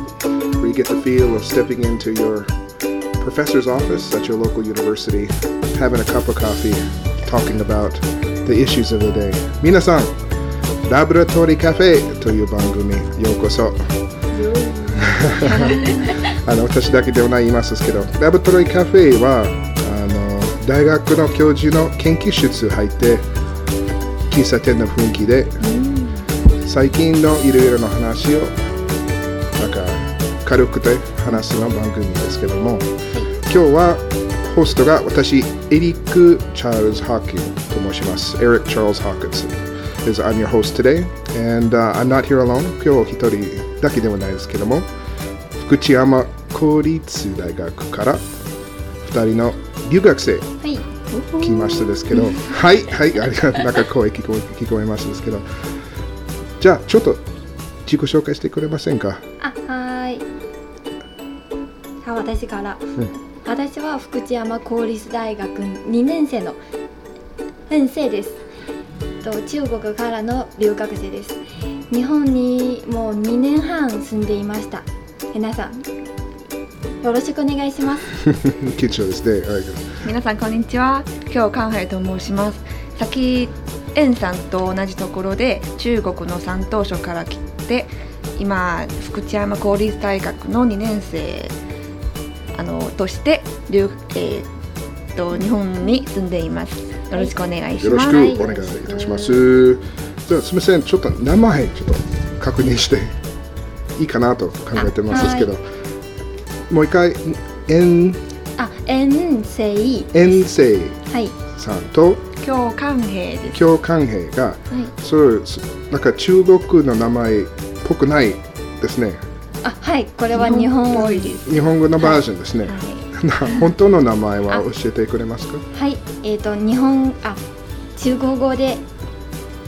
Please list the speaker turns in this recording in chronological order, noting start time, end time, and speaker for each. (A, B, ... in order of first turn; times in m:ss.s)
0:00.6-0:02.5 A
0:03.2-0:10.2 A
0:10.9-0:13.9 A
0:14.3-0:15.4 B
0:14.9-0:23.3 A
0:15.4-0:16.1 C
0:24.3-0:25.6 A
0:25.6-0:26.2 C
0:26.6-0:28.6 A
0:29.6-0:44.9 A
0:45.6-0:48.3 A
0:49.0-0:50.5 A
0:51.1-0:52.4 C
0:51.4-0:55.4 A
0:56.6-0:57.2 A
0:57.9-0:59.2 A
0:59.4-1:00.2 B
1:02.0-1:06.6 B
1:07.7-1:08.4 B
1:09.2-1:15.8 B
1:17.0-1:18.1 B
1:18.2-1:20.0 A
1:20.0-1:31.5 C
1:32.5-1:34.5 C
1:35.2-1:38.4 C
1:37.8-1:43.2 A
1:38.1-1:39.4 B
1:44.0-1:45.6 A
1:45.1-1:45.5 B
1:46.7-1:48.2 A
1:48.6-1:50.4 B
1:50.1-1:52.3 A
1:51.1-1:51.4 B
1:52.4-1:53.7 C
1:53.5-1:59.2 A
1:59.6-2:01.4 B
2:00.3-2:03.6 C
2:01.4-2:05.6 A
2:05.7-2:07.4 B
2:08.0-2:08.8 B